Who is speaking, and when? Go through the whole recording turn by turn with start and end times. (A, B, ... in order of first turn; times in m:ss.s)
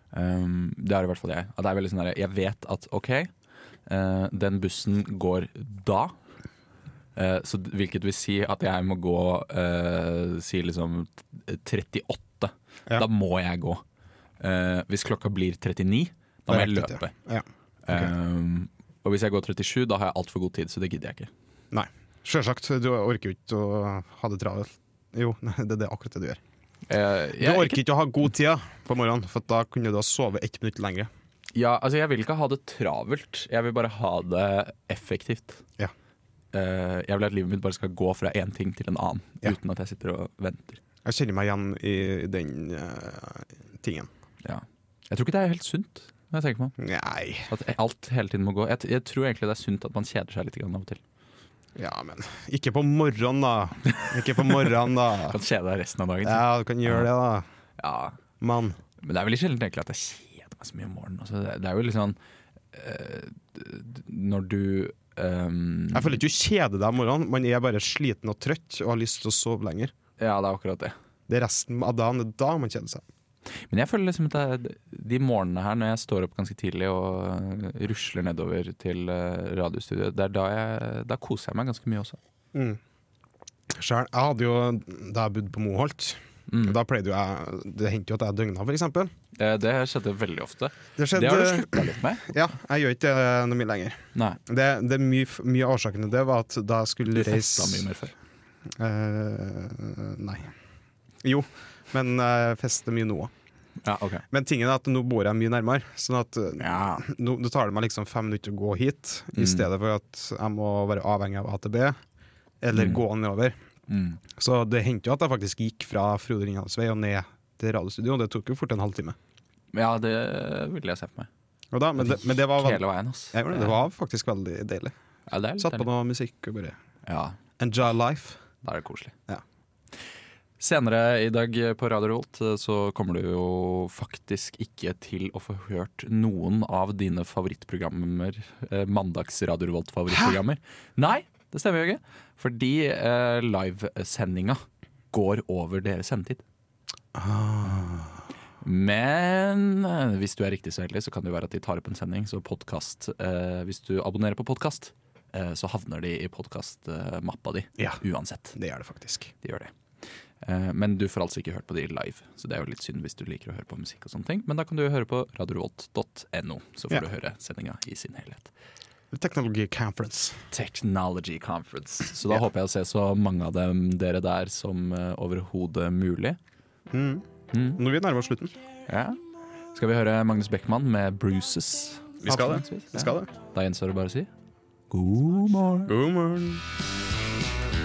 0:00.1-0:03.3 A
0:03.8-0:06.1 A
0:07.2-0:13.8 A
0:14.4-0:17.1 A
0:16.5-0:18.1 B
0:17.8-0:21.3 A
0:21.7-0:26.4 B
0:26.9-0:27.8 A
0:27.4-0:31.1 B
0:31.5-0:35.6 A
0:36.5-0:40.8 A
0:41.0-0:44.1 B
0:44.4-0:46.8 A
0:46.8-0:47.5 B
0:47.5-0:51.0 A
0:51.7-0:55.4 B
0:54.0-0:54.7 A
0:55.3-0:57.1 A
0:56.2-0:57.5 B
0:57.8-0:58.2 A
0:58.4-0:58.8 B
0:59.0-1:02.2 A
1:02.7-1:06.2 A
1:05.9-1:09.9 B
1:10.2-1:10.9 A
1:11.3-1:13.0 B
1:13.7-1:22.2 A
1:22.5-1:22.8 B
1:23.7-1:29.1 B
1:26.5-1:26.8 A
1:29.4-1:32.3 A
1:31.0-1:38.0 B
1:37.1-1:38.1 A
1:38.7-1:40.5 B
1:41.2-1:43.3 B
1:43.8-1:44.2 A
1:44.3-1:52.0 B
1:46.6-1:47.0 A
1:49.4-1:49.6 A
1:52.6-1:53.6 B
1:52.7-1:53.0 A
1:53.9-1:54.2 A
1:54.3-1:59.2 B
1:59.7-2:01.3 A
2:01.7-2:04.9 B
2:02.0-2:03.8 A
2:05.3-2:05.9 A
2:05.6-2:06.8 B
2:07.0-2:07.4 A
2:07.6-2:08.4 B
2:08.6-2:09.1 A
2:10.6-2:26.4 A
2:27.1-2:28.2 B
2:28.6-2:38.6 A
2:38.5-2:39.3 B
2:39.4-2:39.7 A
2:40.4-2:48.5 A
2:49.1-2:50.4 B
2:50.5-2:56.4 A
2:56.9-2:58.5 B
2:57.5-2:57.8 A
2:58.9-2:59.2 A
2:59.7-3:04.3 A
3:02.2-3:03.3 B
3:04.9-3:05.9 A
3:05.8-3:06.6 B